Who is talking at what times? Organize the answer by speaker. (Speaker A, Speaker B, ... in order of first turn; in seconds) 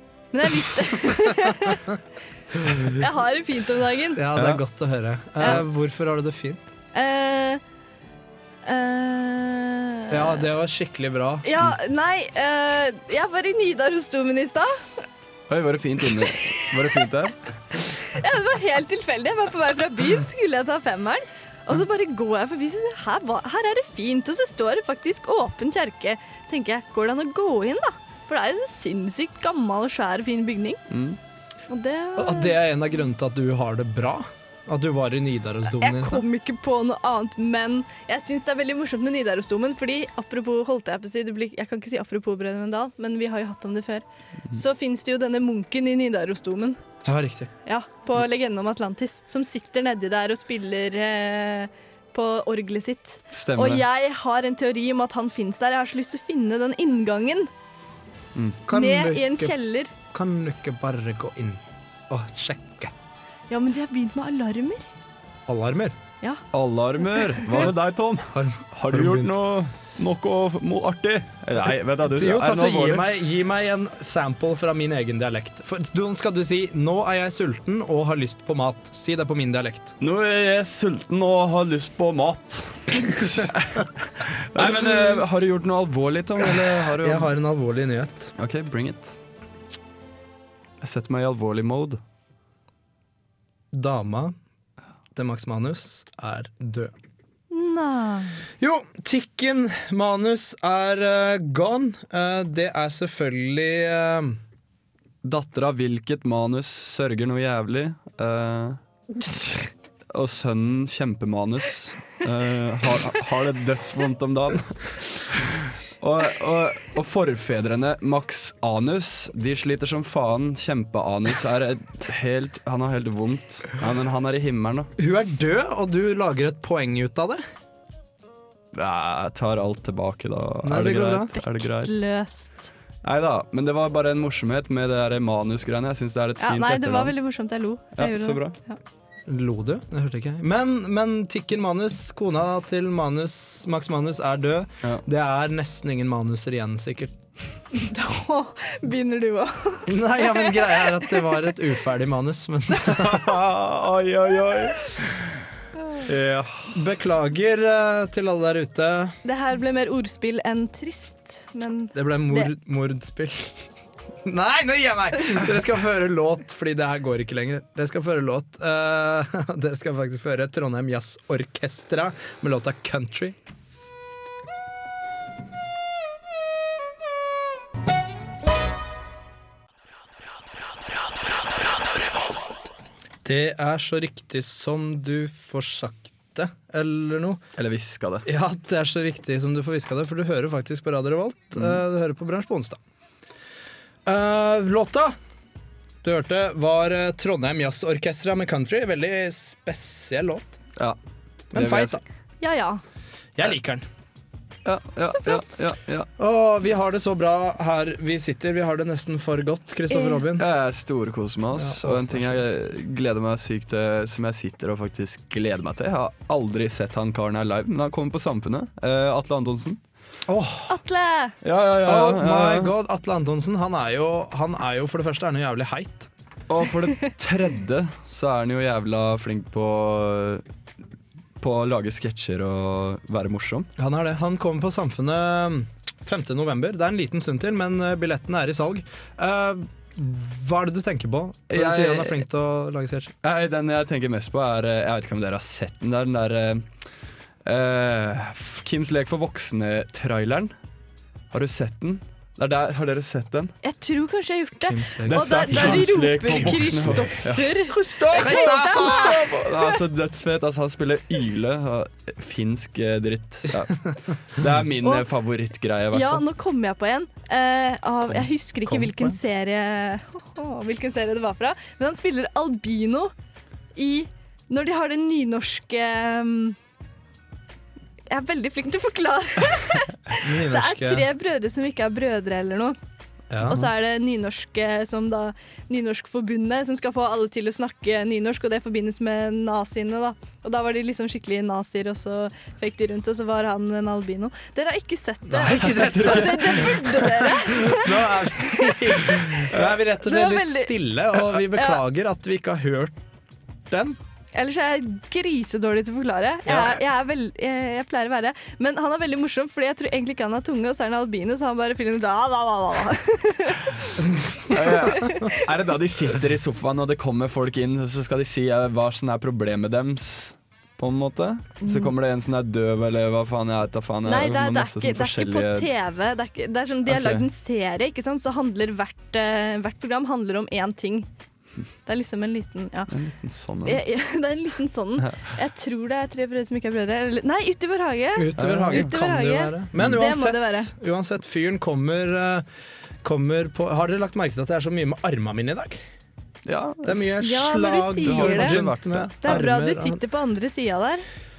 Speaker A: 0.3-1.8, 2.9-4.2, 6.9-7.6, 8.6-10.4, 11.4-14.8, 16.1-17.1, 18.1-30.8, 31.7-32.6, 35.8-46.8, 47.6-57.5, 58.7-59.9, 63.5-64.8, 67.0-67.7, 97.5-98.4, 130.8-132.7, 136.4-138.8, 147.7-151.3, 159.2-162.5, 202.4-202.8, 205.1-205.4, 209.9-210.2, 220.7-221.3, 253.6-259.8, 265.9-273.1, 273.7-276.6, 278.1-282.8, 283.5-299.5, 300.0-300.7, 301.3-301.8, 304.3-314.0, 314.5-315.4, 321.6-321.9, 324.1-331.1, 331.9-332.9, 333.6-340.7, 347.2-348.6, 349.2-351.0
Speaker B: 4.1-6.7, 10.1-11.5, 32.2-36.2, 47.0-47.5, 58.6-59.5, 60.1-62.9, 65.5-66.0, 68.3-69.3, 72.0-80.0, 84.6-85.2, 86.4-88.3, 93.7-94.3, 95.1-96.9, 98.6-104.4, 125.0-127.4, 130.6-131.3, 139.3-147.1, 149.9-153.3, 156.7-159.2, 161.9-163.6, 164.2-173.3, 183.2-187.4, 188.2-192.8, 194.1-195.1, 196.0-200.6, 201.5-202.0, 203.3-203.8, 206.2-210.4, 211.5-212.4, 220.3-220.8, 221.8-226.1, 233.8-243.1, 254.6-257.0, 258.1-259.2, 268.6-269.2, 280.2-281.1, 283.3-283.6, 295.3-302.9, 303.7-304.0, 306.5-306.8, 338.1-342.4, 343.0-345.8, 346.8-350.0
Speaker C: 15.5-17.4, 30.9-31.2, 53.3-53.8, 58.3-58.6, 66.5-73.0, 80.0-87.3, 88.4-89.2, 90.8-92.0, 105.2-108.8, 110.1-124.9, 128.7-131.9, 133.0-137.1, 138.0-138.6, 152.8-155.3, 156.1-156.8, 187.6-188.2, 201.5-202.0, 204.6-206.1, 210.4-219.8, 221.4-222.7, 226.5-230.4, 231.4-233.7, 241.5-242.2, 243.2-246.7, 247.4-250.5, 251.3-253.5, 255.0-266.2, 295.5-297.0, 314.5-325.7, 326.9-327.2, 332.9-333.8, 335.0-335.3, 338.4-338.9, 346.4-347.1, 348.0-349.5